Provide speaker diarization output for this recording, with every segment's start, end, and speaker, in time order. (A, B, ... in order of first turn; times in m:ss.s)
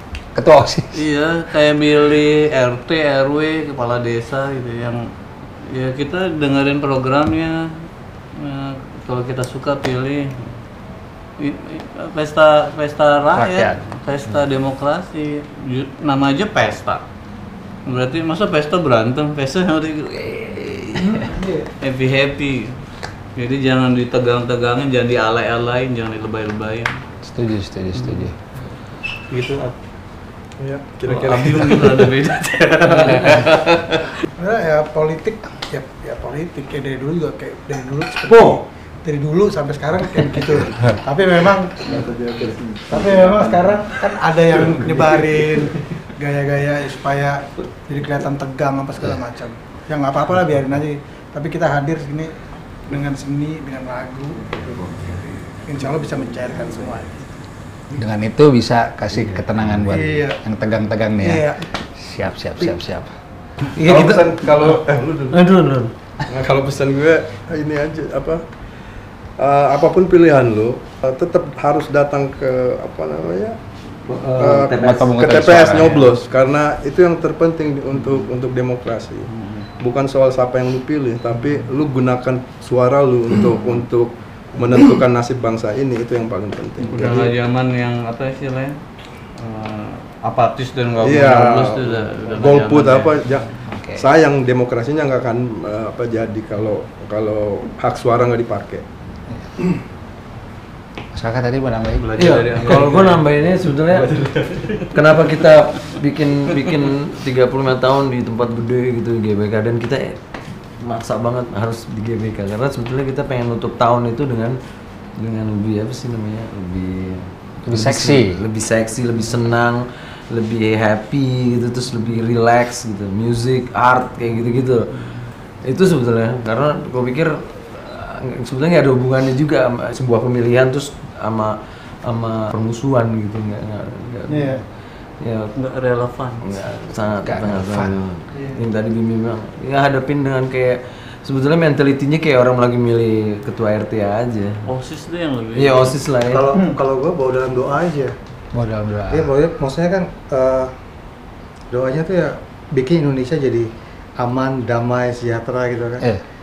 0:00.3-0:01.0 A
0:00.9-0:05.0 B
0:05.7-0:07.7 B
0:08.4-0:10.5 B
0:11.4-0:17.0 B
0:13.3-0:13.8 A
0:17.8-0:22.7 B
0:21.2-0:21.6 C
0:23.4-0:27.0 B
0:27.2-0:28.3 A
0:29.3-0:29.7 B
0:30.6-0:32.1 D
0:31.1-0:34.1 B
0:32.9-0:33.3 E
0:34.4-0:52.3 C
0:38.3-0:38.6 E
0:52.9-0:57.4 C
0:57.9-1:03.1 A
0:59.8-1:00.4 C
1:01.2-1:01.6 C
1:03.8-1:05.4 D
1:03.8-1:04.3 E
1:06.3-1:08.4 D
1:09.4-1:13.6 D
1:14.1-1:15.1 E
1:14.3-1:27.3 D
1:14.8-1:16.0 A
1:19.3-1:19.6 B
1:26.8-1:28.8 B
1:29.4-1:33.4 B
1:31.0-1:38.8 D
1:33.7-1:34.0 A
1:41.1-1:42.1 A
1:41.9-1:43.4 B
1:42.2-1:44.2 E
1:43.9-1:44.9 B
1:44.8-1:50.2 E
1:50.8-1:54.6 E
1:55.2-2:14.7 E
1:57.6-1:58.4 A
2:14.3-2:14.6 C
2:15.2-2:15.5 E
2:15.5-2:16.5 B
2:16.4-2:24.7 E
2:17.2-2:17.9 A
2:24.6-2:26.0 B
2:25.5-2:26.5 E
2:26.3-2:28.1 F
2:28.5-2:29.3 A
2:29.1-2:30.7 F
2:31.7-2:36.1 F